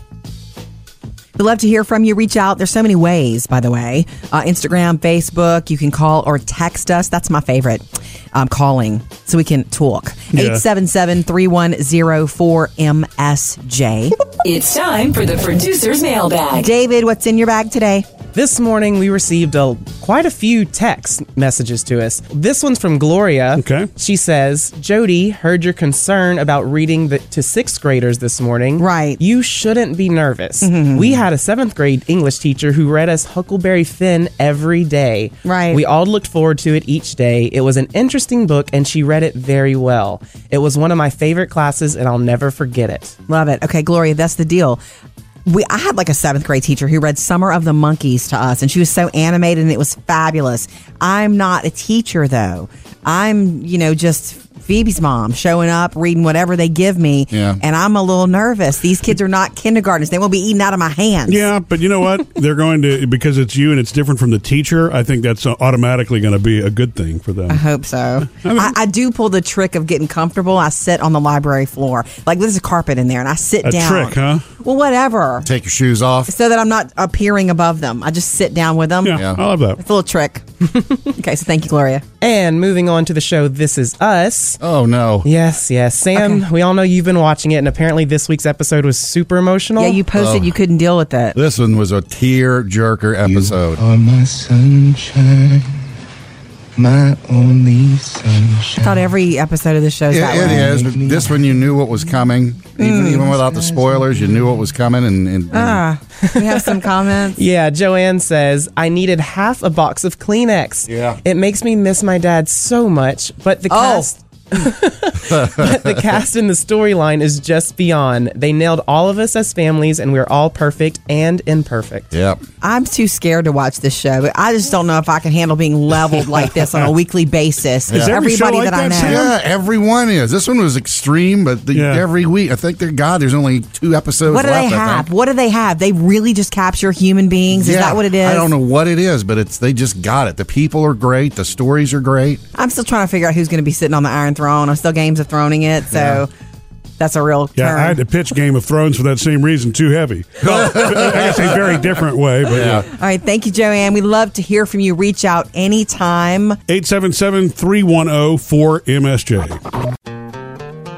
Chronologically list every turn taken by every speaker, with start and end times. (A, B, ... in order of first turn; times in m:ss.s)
0:01.4-0:14.2 A
0:10.3-0:10.6 B
0:14.4-0:16.7 C
0:16.6-0:18.0 A
0:18.3-0:43.2 D
0:23.6-0:23.9 B
0:28.8-0:29.2 A
0:30.6-0:31.2 A
0:35.4-0:35.8 A
0:43.3-0:44.8 A
0:45.4-1:01.4 A
0:57.3-0:57.6 E
1:01.3-1:07.6 B
1:07.5-1:15.5 A
1:08.3-1:08.7 B
1:13.6-1:14.4 B
1:15.4-1:16.3 E
1:16.3-1:19.2 A
1:19.0-1:19.8 B
1:19.8-1:20.4 A
1:21.1-1:22.0 A
1:22.2-1:24.6 D
1:24.6-1:25.3 E
1:25.2-1:30.0 D
1:26.2-1:26.4 A
1:29.8-1:31.4 A
1:30.2-1:30.6 E
1:31.3-1:33.8 E
1:33.2-1:35.8 F
1:36.8-1:39.1 F
1:38.8-1:40.7 A
1:40.1-1:45.8 E
1:40.3-1:42.0 F
1:42.8-1:43.3 A
1:43.0-1:44.7 F
1:45.5-1:47.4 A
1:46.2-1:46.8 D
1:47.4-2:02.1 D
1:50.9-1:51.2 E
1:53.7-1:54.1 A
1:55.3-1:55.9 E
2:02.1-2:02.4 E
2:02.6-2:09.2 A
2:07.9-2:08.2 E
2:07.9-2:09.3 B
2:08.9-2:15.1 E
2:11.7-2:12.0 B
2:14.3-2:18.5 A
2:17.5-2:22.4 E
2:22.5-2:26.3 A
2:25.9-2:26.2 E
2:27.0-2:28.0 A
2:27.6-2:32.8 B
2:30.4-2:31.7 E
2:32.5-2:32.8 E
2:32.8-2:36.6 A
2:36.7-2:39.6 B